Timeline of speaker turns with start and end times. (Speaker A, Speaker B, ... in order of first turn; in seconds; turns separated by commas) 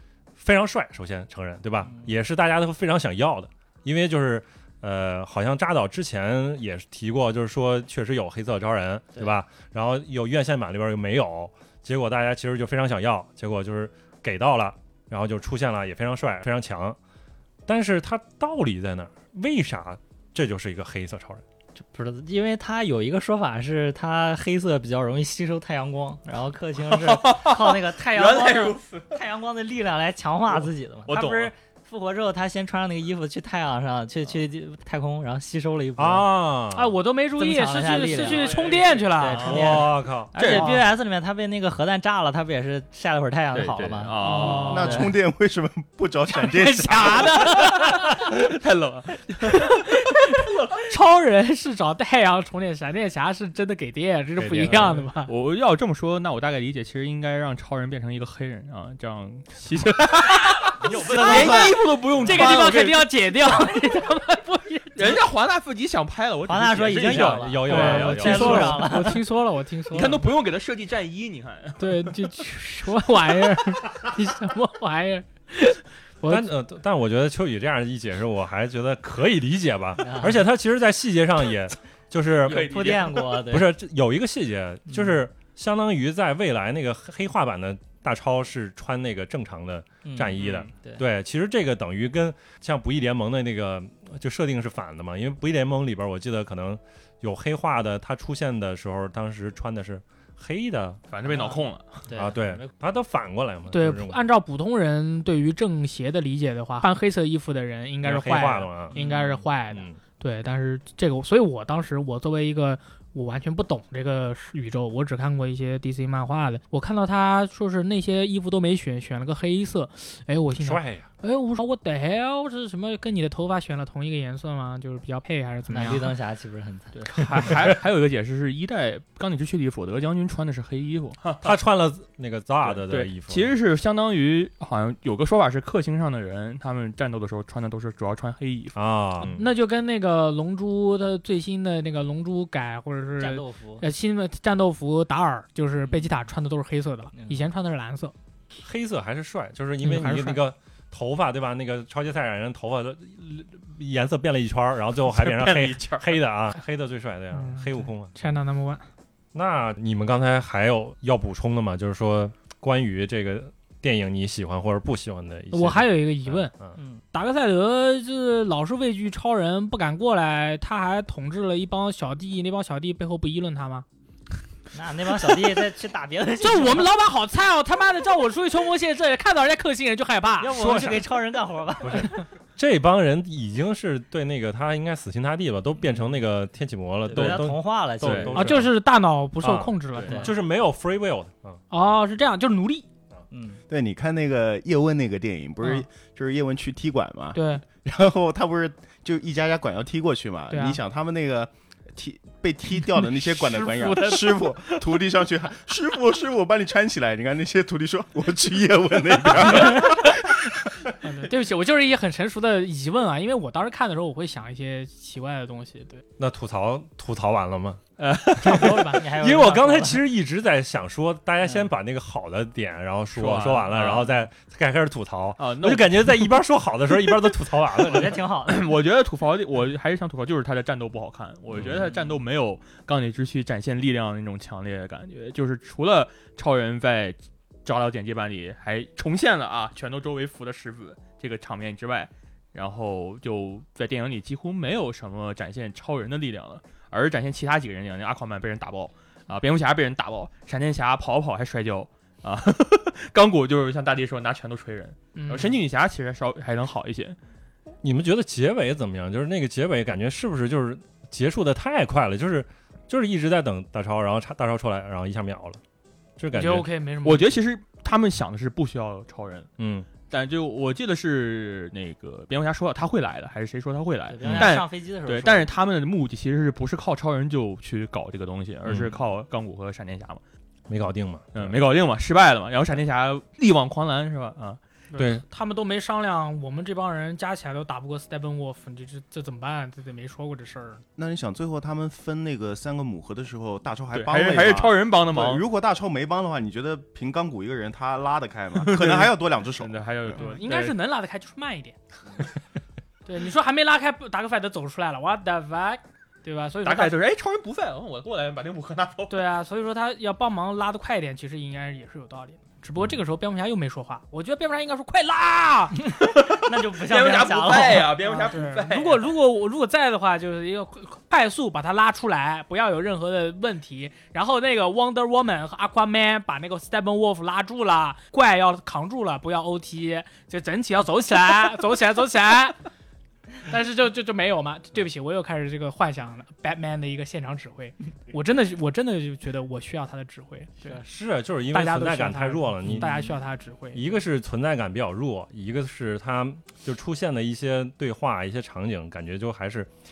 Speaker A: 0.4-17.0, Speaker A: 17.7-21.4, Speaker B: 21.8-36.3, Speaker C: 26.8-29.2, Speaker C: 30.5-31.5, Speaker A: 36.0-36.9, Speaker D: 36.7-39.6, Speaker B: 37.4-45.1, Speaker C: 38.1-39.8, Speaker A: 39.4-40.3, Speaker C: 40.4-40.8, Speaker D: 40.4-40.8, Speaker C: 43.5-44.9, Speaker D: 44.2-45.1, Speaker E: 44.6-47.6, Speaker D: 46.3-48.4, Speaker C: 47.7-50.8, Speaker D: 49.5-55.3, Speaker A: 54.4-55.0, Speaker C: 55.2-63.1, Speaker D: 60.4-65.2, Speaker A: 60.8-61.7, Speaker B: 60.9-61.6, Speaker C: 65.0-68.8, Speaker B: 66.5-69.2, Speaker A: 67.0-68.8, Speaker D: 67.7-70.2, Speaker C: 69.9-72.2, Speaker D: 71.8-76.4, Speaker A: 76.2-82.7, Speaker B: 80.0-80.4, Speaker C: 82.5-83.4, Speaker B: 82.5-83.7, Speaker A: 83.5-101.0, Speaker B: 84.9-85.2, Speaker B: 90.0-91.0, Speaker C: 90.4-90.7, Speaker C: 101.1-102.1, Speaker B: 102.1-102.7, Speaker A: 102.2-104.2, Speaker D: 103.7-126.2, Speaker A: 108.0-110.0, Speaker A: 120.6-121.1, Speaker B: 125.7-127.5, Speaker C: 127.1-131.5, Speaker A: 131.4-133.5, Speaker C: 132.6-138.8, Speaker A: 138.7-139.5, Speaker D: 139.2-148.1, Speaker B: 143.2-143.8, Speaker B: 147.1-147.4, Speaker A: 148.6-158.1, Speaker D: 149.8-150.4, Speaker C: 155.1-156.2, Speaker D: 157.3-158.9, Speaker A: 159.3-166.7, Speaker D: 165.5-166.5, Speaker B: 166.8-167.0, Speaker D: 167.0-173.8, Speaker B: 174.7-176.8, Speaker D: 176.4-180.9, Speaker B: 180.4-182.1, Speaker A: 180.6-181.0, Speaker A: 181.8-188.7, Speaker B: 187.1-188.6, Speaker D: 188.3-190.3, Speaker A: 189.4-191.6, Speaker B: 190.0-190.3, Speaker D: 191.7-192.9, Speaker B: 193.3-193.6, Speaker E: 193.7-210.9, Speaker D: 197.3-197.6, Speaker D: 200.5-200.8, Speaker D: 203.0-204.8, Speaker D: 209.7-209.9, Speaker D: 211.0-216.0, Speaker A: 216.2-217.8, Speaker C: 218.0-218.8, Speaker A: 218.4-228.2, Speaker D: 218.5-219.0, Speaker B: 218.5-220.0, Speaker C: 223.1-224.1, Speaker C: 225.4-226.3, Speaker C: 227.0-257.2, Speaker B: 227.8-228.7, Speaker A: 231.5-231.9, Speaker D: 255.1-255.6, Speaker A: 257.8-265.6, Speaker A: 266.2-266.7, Speaker D: 266.3-267.3, Speaker C: 267.0-269.5, Speaker A: 269.6-269.9, Speaker C: 270.1-280.2, Speaker B: 274.1-275.5, Speaker A: 274.2-274.5, Speaker A: 278.7-278.9, Speaker A: 280.7-281.6, Speaker C: 281.3-284.6, Speaker D: 284.9-290.8, Speaker A: 285.0-285.2, Speaker E: 290.9-300.2, Speaker C: 293.9-295.4, Speaker C: 298.5-300.8, Speaker D: 300.1-301.8, Speaker D: 303.1-306.9, Speaker C: 306.6-309.2, Speaker D: 309.1-315.9, Speaker B: 316.1-318.3, Speaker C: 316.1-319.0, Speaker D: 318.0-332.6, Speaker D: 333.4-340.8, Speaker A: 340.7-342.9, Speaker D: 341.5-343.9, Speaker A: 343.7-349.7